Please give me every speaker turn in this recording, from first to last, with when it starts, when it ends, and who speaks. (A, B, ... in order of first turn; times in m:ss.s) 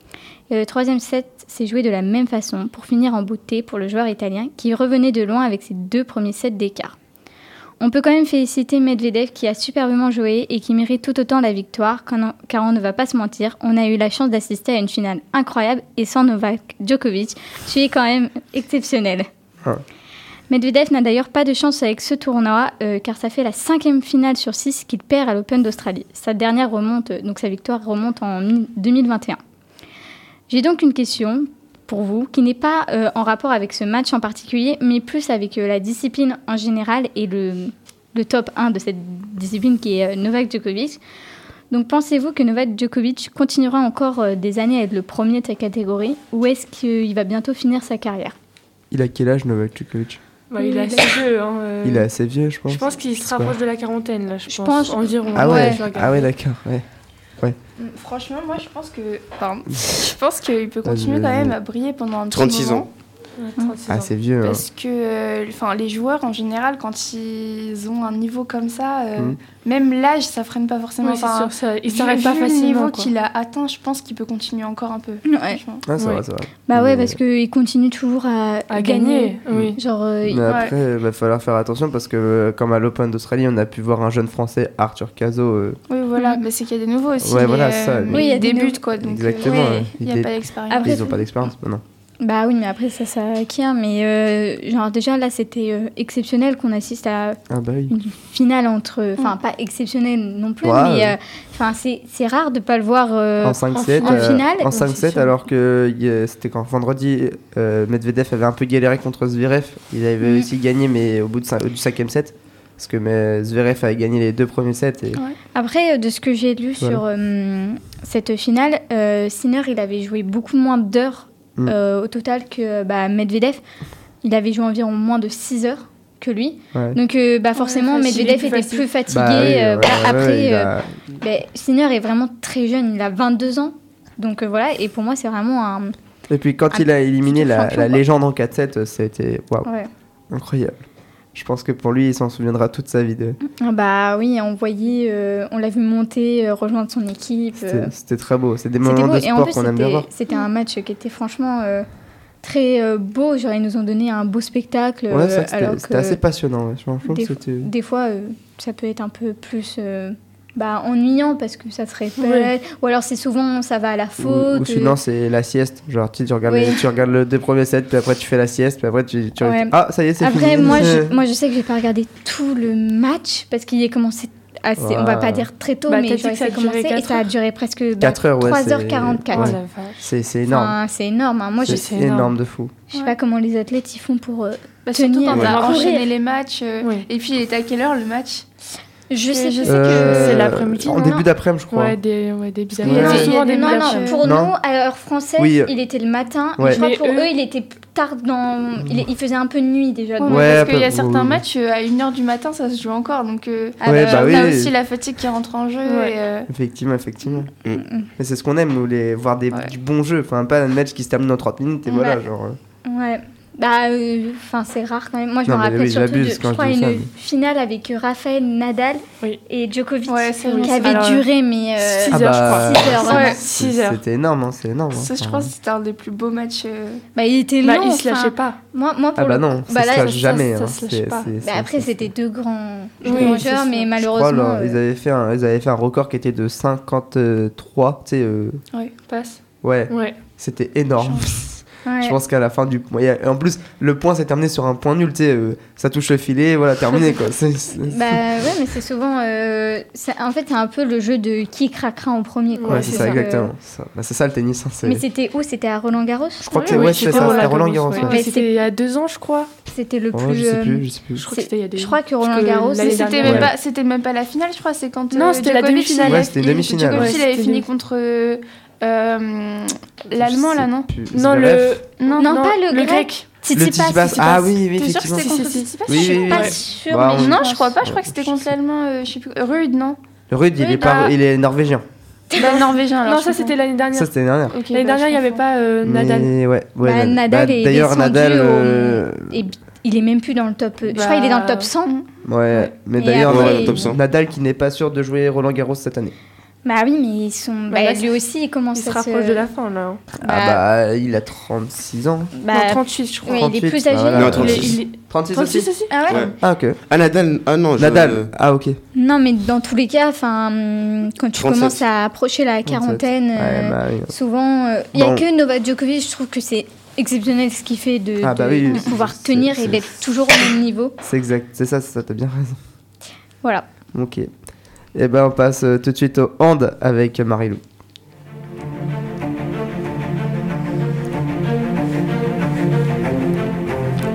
0:00.5-0:07.0 A
0:07.8-0:19.3 A
0:20.5-0:29.4 A
0:30.5-0:41.0 A
0:41.7-0:48.4 A
0:48.9-0:50.2 B
0:50.5-0:52.1 C
0:50.6-0:51.2 A
0:51.8-0:53.6 B
0:52.7-0:56.3 C
0:54.5-0:55.8 A
0:55.3-0:56.8 B
0:57.8-1:02.9 D
1:00.8-1:01.6 B
1:02.3-1:02.9 E
1:03.4-1:04.1 C
1:03.9-1:04.6 B
1:04.4-1:15.8 D
1:11.0-1:13.1 C
1:15.3-1:15.6 A
1:15.9-1:17.2 B
1:16.0-1:16.2 C
1:16.7-1:20.5 A
1:18.7-1:19.8 C
1:20.2-1:25.8 B
1:20.5-1:20.8 D
1:25.9-1:31.1 D
1:27.2-1:28.2 B
1:28.1-1:28.8 A
1:29.0-1:31.8 B
1:30.7-1:31.2 A
1:32.2-1:44.7 A
1:37.5-1:38.0 B
1:40.6-1:41.2 B
1:43.4-1:55.2 B
1:43.7-1:45.4 C
1:55.5-2:03.6 A
2:04.2-2:16.0 A
2:07.6-2:08.9 C
2:09.1-2:10.9 B
2:16.3-2:19.7 B
2:16.7-2:18.0 A
2:19.6-2:19.9 A
2:20.3-2:20.8 B
2:21.4-2:23.4 B
2:23.4-2:27.9 A
2:27.6-2:30.1 B
2:28.8-2:31.9 A
2:32.4-2:36.2 A
2:35.1-2:37.7 B
2:37.1-2:45.0 A
2:42.2-2:42.5 C
2:44.2-2:51.2 B
2:46.5-2:46.8 A
2:49.4-2:59.5 A
2:54.8-2:55.5 B
2:55.9-2:57.3 C
2:58.0-3:00.8 B
2:59.3-3:00.0 C
3:00.5-3:01.8 A
3:01.6-3:02.4 C
3:01.6-3:02.7 B
3:02.9-3:06.1 A
3:04.9-3:08.5 D
3:05.4-3:05.9 C
3:09.1-3:10.4 A
3:09.3-3:10.3 D
3:09.6-3:12.0 B
3:09.9-3:11.2 C
3:10.9-3:11.2 A
3:11.7-3:14.2 C
3:12.8-3:13.3 B
3:12.8-3:14.2 D
3:12.9-3:20.7 A
3:14.2-3:14.5 B
3:15.4-3:15.7 B
3:16.7-3:17.3 C
3:18.8-3:19.1 B
3:20.2-3:26.5 D
3:20.3-3:21.4 B
3:23.8-3:24.6 A
3:23.8-3:24.7 B
3:25.8-3:26.2 C
3:26.5-3:27.5 B
3:27.8-3:28.1 A
3:28.2-3:32.6 B
3:31.9-3:32.2 D
3:32.8-3:43.4 A
3:35.4-3:37.1 B
3:40.1-3:41.2 D
3:40.4-3:41.3 C
3:41.8-3:44.0 C
3:42.1-3:45.5 B
3:43.1-3:43.4 D
3:44.9-3:47.0 D
3:47.2-3:50.3 A
3:47.6-3:48.6 C
3:49.2-3:52.1 B
3:50.0-3:51.3 C
3:51.4-3:54.8 A
3:53.0-3:53.9 C
3:54.0-3:58.6 B
3:59.1-4:00.2 C
3:59.6-4:08.3 B
4:01.0-4:01.4 D
4:01.8-4:02.2 A
4:07.8-4:13.5 A
4:12.6-4:13.2 C
4:12.7-4:15.0 B
4:14.8-4:18.5 A
4:16.4-4:18.2 B
4:16.5-4:19.5 C
4:19.7-4:23.1 A
4:20.1-4:21.3 B
4:21.2-4:23.5 C
4:22.8-4:30.9 D
4:23.2-4:23.5 B
4:25.1-4:27.7 C
4:26.0-4:27.2 B
4:30.2-4:31.8 B
4:31.1-4:33.3 C
4:32.0-4:32.3 D
4:32.2-4:34.4 A
4:33.5-4:35.3 B
4:34.2-4:36.6 C
4:34.8-4:36.6 D
4:35.9-4:38.5 B
4:35.9-4:37.7 A
4:37.1-4:40.0 D
4:40.3-4:41.8 B
4:40.6-4:41.1 A
4:40.8-4:41.1 D
4:42.3-4:43.6 D
4:42.4-4:44.1 C
4:43.9-4:44.6 B
4:44.5-4:45.4 D
4:44.7-4:46.3 C
4:45.8-4:49.4 B
4:46.8-4:51.9 A
4:50.9-4:51.7 C
4:52.2-4:56.2 B
4:53.0-4:53.8 A
4:53.2-4:54.0 E
4:56.6-4:59.4 A
4:57.7-4:58.1 C
4:58.8-5:00.0 C
5:00.2-5:02.4 B
5:00.2-5:00.6 A
5:02.4-5:04.6 A
5:02.5-5:03.5 C
5:03.3-5:05.7 B
5:04.1-5:04.8 E
5:04.3-5:06.0 C
5:05.9-5:06.3 A
5:06.1-5:06.4 E
5:06.4-5:06.8 B
5:06.9-5:08.3 E
5:07.8-5:08.8 B
5:09.0-5:21.0 A
5:11.3-5:11.8 E
5:12.7-5:14.1 B
5:14.9-5:15.2 B
5:18.2-5:20.0 B
5:21.0-5:22.6 B
5:23.9-5:24.3 B
5:25.0-5:27.6 B